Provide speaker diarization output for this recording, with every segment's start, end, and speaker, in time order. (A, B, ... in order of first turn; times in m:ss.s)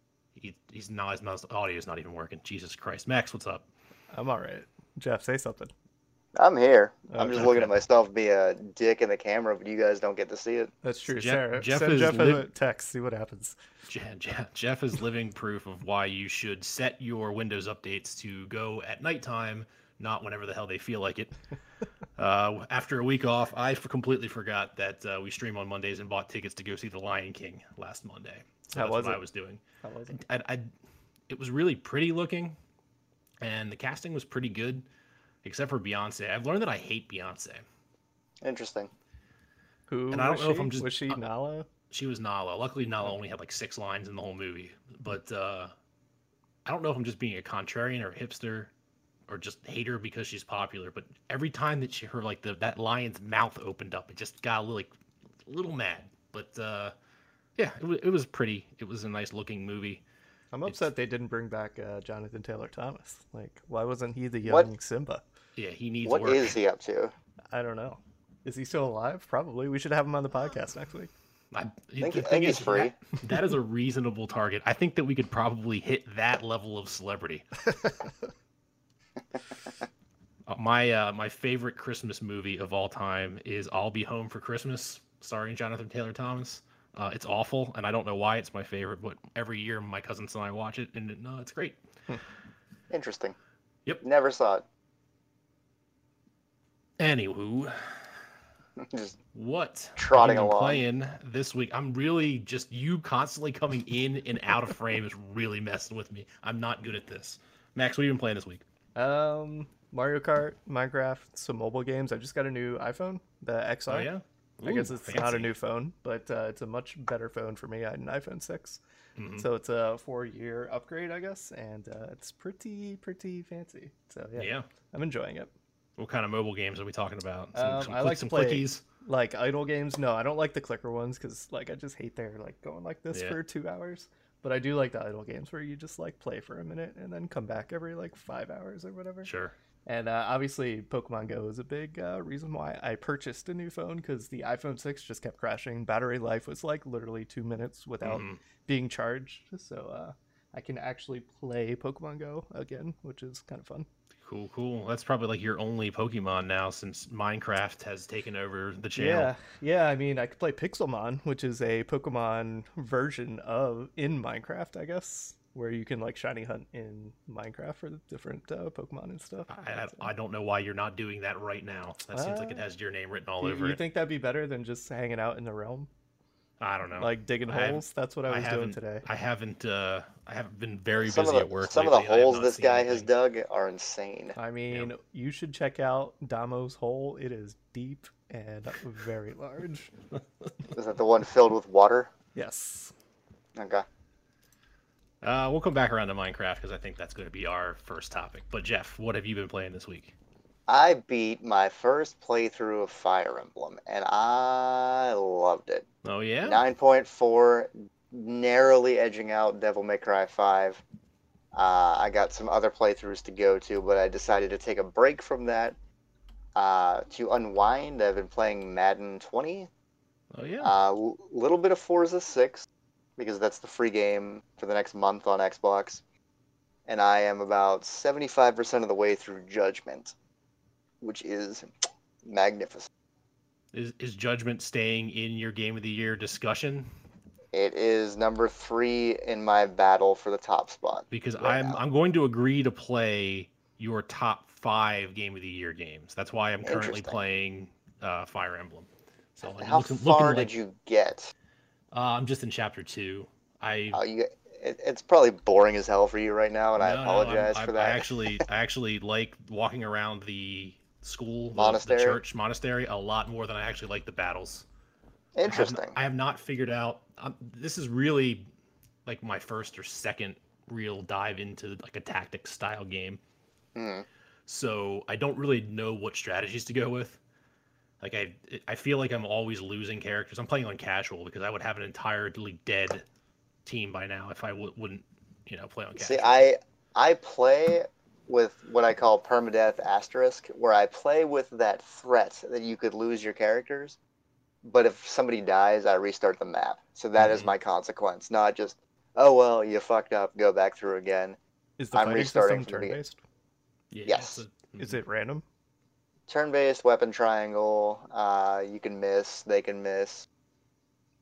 0:00.4-0:03.7 A
0:04.1-0:05.7 B
0:06.4-0:10.7 C
0:07.1-0:07.5 B
0:07.3-0:07.7 A
0:10.8-0:13.6 B
0:11.1-0:12.4 A
0:13.9-0:21.3 A
0:22.2-0:30.7 A
0:28.8-0:29.2 B
0:29.8-0:30.2 B
0:31.3-0:32.6 A
0:33.4-0:34.9 A
0:35.4-0:37.6 A
0:38.4-0:38.9 C
0:39.9-0:41.7 B
0:40.1-0:41.3 A
0:41.9-0:45.7 A
0:46.7-0:48.7 A
0:49.3-0:54.9 A
0:55.5-0:57.0 A
0:57.6-1:00.0 A
1:00.5-1:05.2 B
1:00.6-1:00.9 A
1:04.4-1:04.7 C
1:05.6-1:06.6 A
1:06.0-1:07.1 C
1:07.5-1:11.1 B
1:11.5-1:17.5 A
1:12.0-1:12.9 C
1:17.8-1:18.1 B
1:20.5-1:31.8 A
1:32.9-1:33.4 C
1:34.0-1:34.6 C
1:37.0-1:38.1 A
1:38.8-1:39.2 C
1:39.3-1:48.6 A
1:40.0-1:40.8 C
1:49.0-1:54.1 B
1:53.9-1:55.5 A
1:54.6-1:58.8 B
1:59.2-1:59.5 A
1:59.4-2:05.5 B
2:04.4-2:04.7 A
2:06.0-2:08.8 A
2:07.5-2:19.3 B
2:13.1-2:13.4 A
2:19.2-2:19.5 A
2:19.9-2:33.9 B
2:28.0-2:28.4 A
2:34.2-2:39.3 A
2:39.0-2:50.1 B
2:49.5-2:53.8 A
2:52.1-2:52.6 B
2:53.4-2:55.9 B
2:56.6-3:03.1 A
2:57.0-2:59.0 B
3:01.0-3:04.4 C
3:04.4-3:09.9 B
3:10.7-3:12.1 C
3:12.4-3:12.9 B
3:13.6-3:13.9 C
3:15.2-3:20.1 A
3:20.7-3:25.9 C
3:26.0-3:26.6 A
3:26.4-3:30.8 C
3:31.5-3:35.8 C
3:36.6-3:39.7 C
3:40.3-3:40.7 A
3:40.6-3:46.0 C
3:46.9-3:50.1 C
3:51.0-3:51.7 C
3:52.2-3:52.9 C
3:53.7-3:56.9 A
3:57.5-4:01.8 C
4:01.1-4:10.5 A
4:06.6-4:07.2 C
4:09.4-4:11.3 C
4:11.9-4:14.0 A
4:13.9-4:18.4 C
4:16.8-4:24.7 A
4:21.6-4:22.2 C
4:25.4-4:26.0 C
4:25.4-4:28.5 A
4:29.1-4:33.2 A
4:33.8-4:34.1 C
4:34.5-4:37.2 A
4:38.0-4:43.0 A
4:43.6-4:46.5 A
4:46.0-4:54.0 C
4:54.6-5:01.4 C
4:57.2-4:57.5 A
5:01.8-5:03.2 B
5:01.9-5:03.0 C
5:03.9-5:05.0 A
5:04.1-5:04.4 C
5:04.8-5:05.4 B
5:06.3-5:10.3 C